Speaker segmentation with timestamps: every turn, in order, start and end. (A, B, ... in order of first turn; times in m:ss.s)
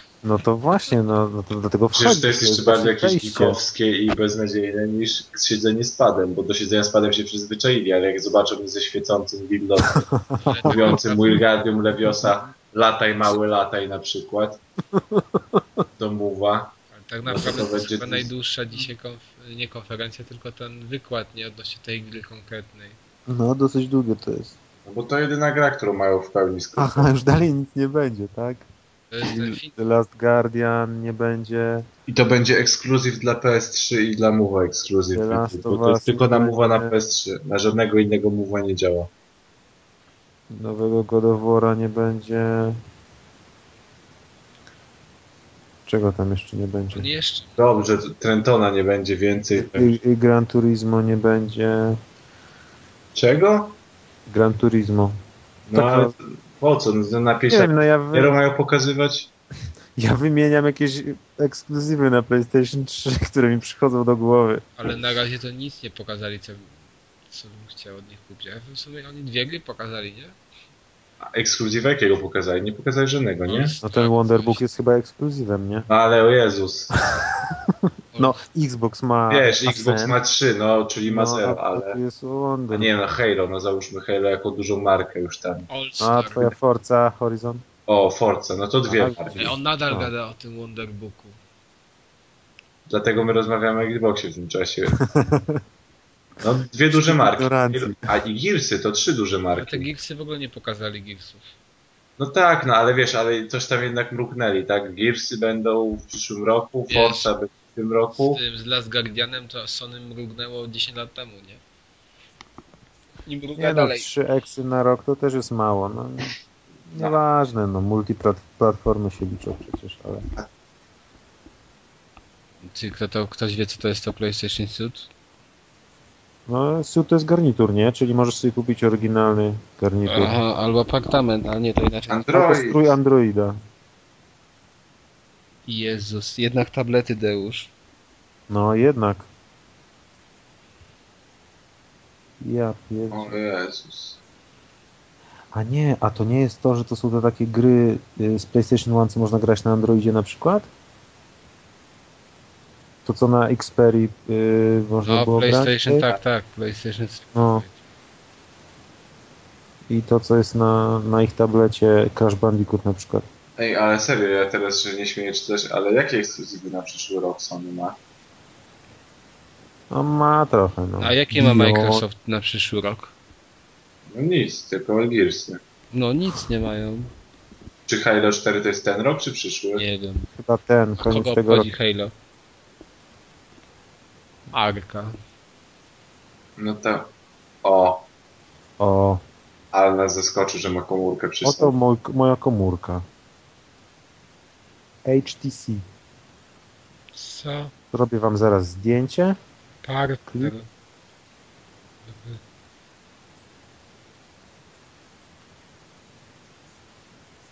0:00.2-0:03.6 A
0:01.9-0:10.1 B
0:09.9-0:11.0 A
0:10.4-0:11.4 C
0:10.7-0:14.6 B
0:14.9-0:15.8 A
0:16.0-0:18.3 B
0:16.9-0:23.0 C
0:23.3-0:24.6 A
0:24.8-0:27.1 B
0:26.8-0:28.6 A
0:29.1-0:29.8 C
0:29.2-0:31.9 A
0:32.1-0:39.1 B
0:35.1-0:36.9 A
0:40.5-0:42.8 A
0:45.8-0:47.1 A
0:46.9-0:47.5 C
0:47.6-0:50.0 B
0:49.5-0:52.0 A
0:53.1-0:53.8 B
0:54.3-0:55.1 A
0:55.7-0:59.3 B
0:55.7-0:56.1 A
0:57.5-0:58.4 A
1:00.0-1:04.6 A
1:04.8-1:06.7 C
1:07.3-1:10.4 C
1:11.3-1:13.8 B
1:13.4-1:14.7 C
1:13.8-1:15.9 A
1:15.9-1:16.9 B
1:17.1-1:20.2 A
1:19.3-1:22.0 B
1:21.0-1:22.9 A
1:22.7-1:25.7 B
1:25.7-1:26.5 C
1:26.0-1:27.6 A
1:27.9-1:29.5 B
1:28.9-1:30.1 A
1:29.4-1:31.4 C
1:32.9-1:35.1 B
1:35.0-1:35.6 A
1:36.4-1:39.9 B
1:36.9-1:38.0 A
1:39.5-1:41.5 C
1:42.2-1:48.4 B
1:46.9-1:47.3 C
1:48.1-1:51.6 C
1:53.2-1:54.1 C
1:53.6-1:56.3 A
1:56.9-2:00.3 A
2:02.6-2:05.1 C
2:06.5-2:10.4 A
2:10.0-2:12.3 C
2:12.1-2:13.0 B
2:12.2-2:13.6 A
2:15.7-2:17.7 C
2:18.5-2:19.3 A
2:22.4-2:23.4 A
2:23.1-2:24.2 B
2:25.5-2:30.7 A
2:33.0-2:36.1 A
2:35.0-2:37.8 C
2:37.3-2:37.6 A
2:39.9-2:43.2 A
2:43.6-2:48.0 B
2:49.9-2:52.0 A
2:51.0-2:53.1 C
2:54.1-2:55.6 B
2:55.9-2:57.1 C
2:57.9-2:59.8 B
2:59.8-3:00.3 C
3:00.4-3:01.7 A
3:01.0-3:02.1 C
3:04.5-3:05.2 C
3:06.6-3:07.1 B
3:07.6-3:08.0 B
3:08.8-3:09.2 A
3:09.7-3:11.7 B
3:11.4-3:13.0 A
3:15.0-3:15.8 A
3:17.1-3:17.7 C
3:17.9-3:19.4 A
3:19.8-3:20.7 C
3:20.3-3:20.5 A
3:22.1-3:22.4 C